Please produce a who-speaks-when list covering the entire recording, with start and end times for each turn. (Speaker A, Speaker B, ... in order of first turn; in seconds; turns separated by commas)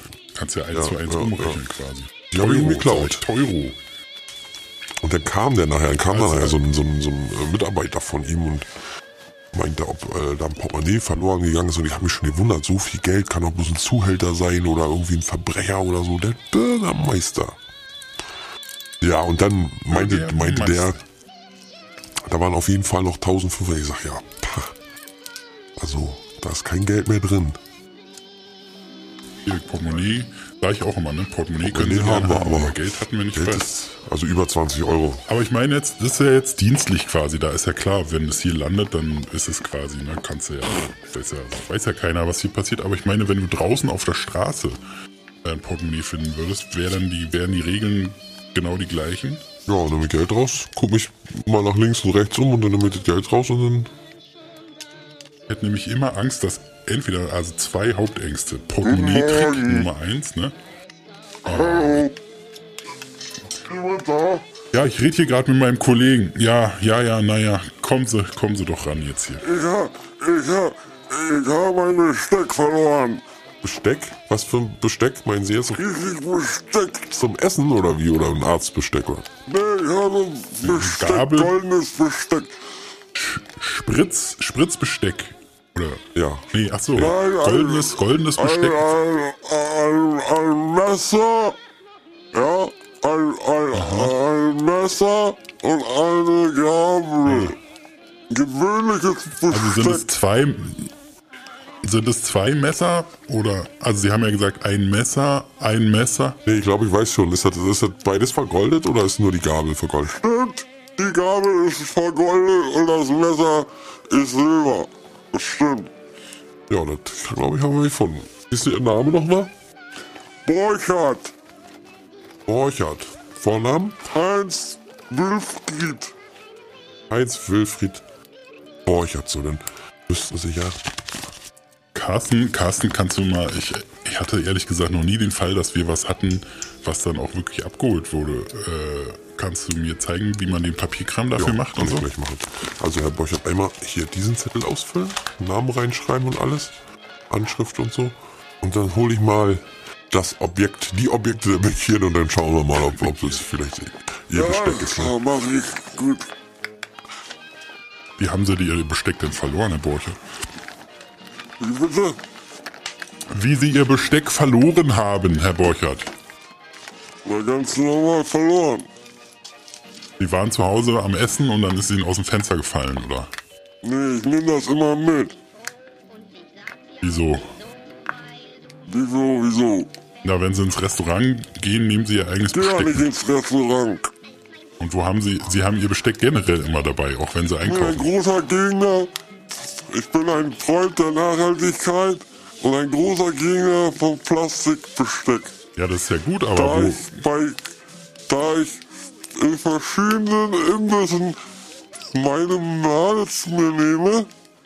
Speaker A: 0.3-3.8, Speaker B: 0.7-1.6, Speaker B: 2.3-3.2, Speaker B: 5.0-8.7, Speaker A: 6.1-6.6, Speaker B: 9.5-17.6, Speaker B: 19.0-21.0, Speaker A: 19.9-21.0, Speaker B: 22.2-24.8, Speaker B: 25.8-27.6, Speaker A: 29.4-33.6, Speaker B: 31.6-35.3, Speaker A: 35.3-44.8, Speaker A: 45.4-49.5, Speaker B: 49.7-53.9, Speaker A: 55.5-60.5, Speaker C: 58.9-59.9, Speaker A: 61.5-62.1, Speaker C: 61.5-62.1, Speaker C: 63.7-64.4, Speaker A: 64.7-69.5, Speaker C: 69.4-73.2, Speaker B: 73.6-75.8, Speaker C: 75.7-77.2, Speaker B: 77.1-79.3, Speaker C: 79.5-82.5, Speaker A: 80.6-81.6, Speaker A: 83.2-89.0, Speaker B: 86.2-87.1, Speaker C: 87.0-91.6, Speaker C: 92.3-97.6, Speaker A: 93.7-94.2, Speaker A: 97.3-97.5, Speaker C: 98.3-100.1, Speaker A: 99.5-100.9, Speaker A: 101.8-106.4, Speaker B: 106.5-110.2, Speaker C: 110.2-115.9, Speaker B: 116.7-119.5, Speaker C: 120.5-121.3, Speaker B: 122.5-124.0, Speaker C: 124.1-126.1, Speaker B: 127.1-128.0, Speaker B: 128.9-130.8, Speaker A: 131.9-142.1, Speaker B: 141.4-146.7, Speaker B: 147.3-155.2, Speaker C: 154.3-156.3, Speaker A: 158.2-160.2, Speaker C: 161.6-162.2, Speaker A: 163.3-166.1, Speaker C: 167.2-168.9, Speaker A: 170.2-173.3, Speaker C: 173.8-175.3, Speaker A: 177.0-177.5, Speaker C: 178.9-179.9, Speaker A: 180.2-183.1, Speaker C: 182.5-184.1, Speaker A: 184.8-188.1, Speaker C: 187.6-195.6, Speaker A: 195.8-197.2, Speaker C: 196.5-197.6, Speaker C: 198.3-198.8, Speaker C: 199.3-201.4, Speaker C: 202.1-204.3